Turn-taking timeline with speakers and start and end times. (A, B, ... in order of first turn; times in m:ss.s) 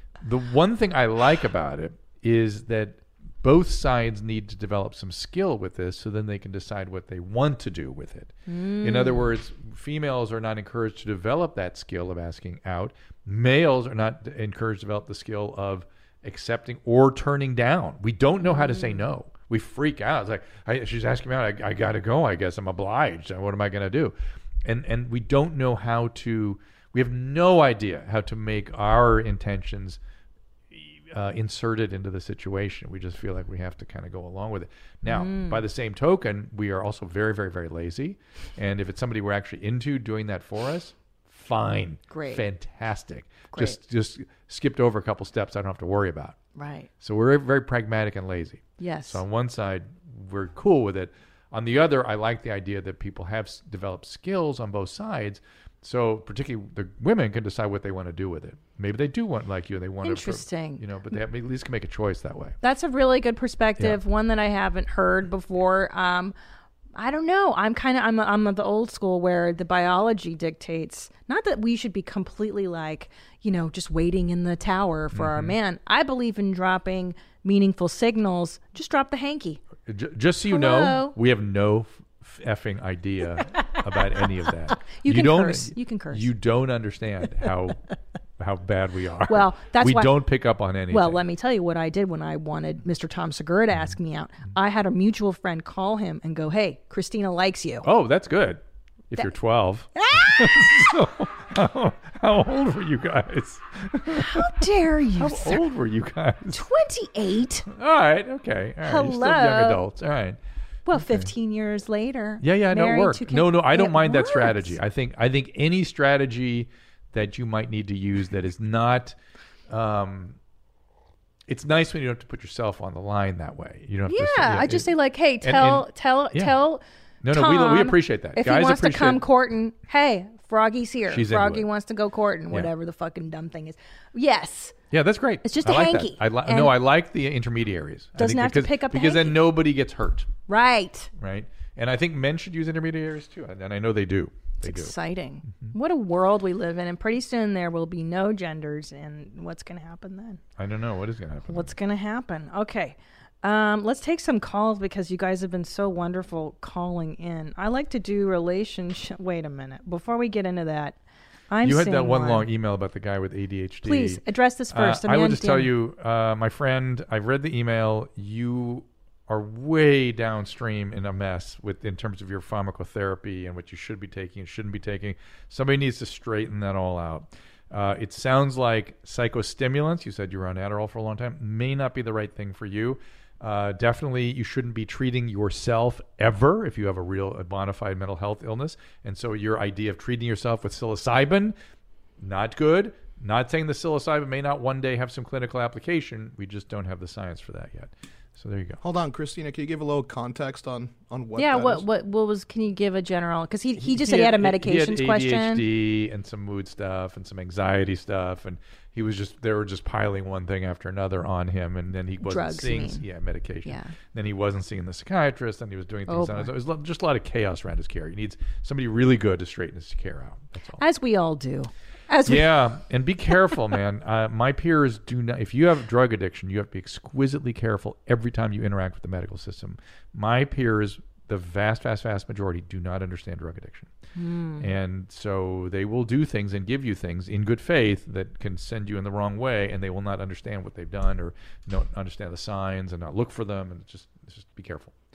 0:00.2-0:30.0 A
0:08.5-0:09.3 B
0:18.5-0:19.0 B
0:30.7-0:46.4 A
0:35.0-0:35.6 B
0:42.1-0:42.4 B
0:43.5-0:43.8 B
0:46.5-0:46.9 B
0:47.0-1:02.6 A
0:48.8-0:49.2 B
1:00.0-1:00.8 B
1:02.6-1:06.4 B
1:06.9-1:19.6 B
1:15.1-1:15.6 A
1:19.8-1:27.8 A
1:20.5-1:21.2 B
1:24.9-1:26.3 B
1:28.4-1:31.2 A
1:29.3-1:30.2 B
1:30.9-1:37.8 B
1:37.8-1:44.5 A
1:40.0-1:40.8 B
1:44.1-1:45.6 B
1:45.2-1:46.6 A
1:46.5-1:47.6 B
1:47.7-1:50.4 A
1:48.8-1:49.8 B
1:50.9-1:54.8 B
1:50.9-1:51.3 A
1:52.4-1:59.2 A
1:59.7-2:00.4 A
2:01.5-2:06.6 A
2:04.1-2:14.8 B
2:07.2-2:09.2 A
2:11.1-2:11.7 A
2:14.9-2:20.3 A
2:15.4-2:16.8 B
2:18.2-2:19.4 B
2:20.5-2:21.1 B
2:21.2-2:24.9 A
2:24.6-2:30.4 B
2:25.5-2:25.7 A
2:30.6-2:31.7 A
2:31.5-2:41.0 B
2:41.5-2:42.5 B
2:41.6-3:11.6 A
2:43.8-2:45.7 B
3:12.2-3:18.8 A
3:18.8-3:21.8 C
3:21.4-3:25.6 B
3:23.8-3:40.8 A
3:32.2-3:33.0 B
3:33.6-3:33.9 B
3:36.1-3:36.5 B
3:40.8-3:42.5 B
3:42.2-3:53.9 A
3:54.2-3:54.7 B
3:54.6-4:04.9 A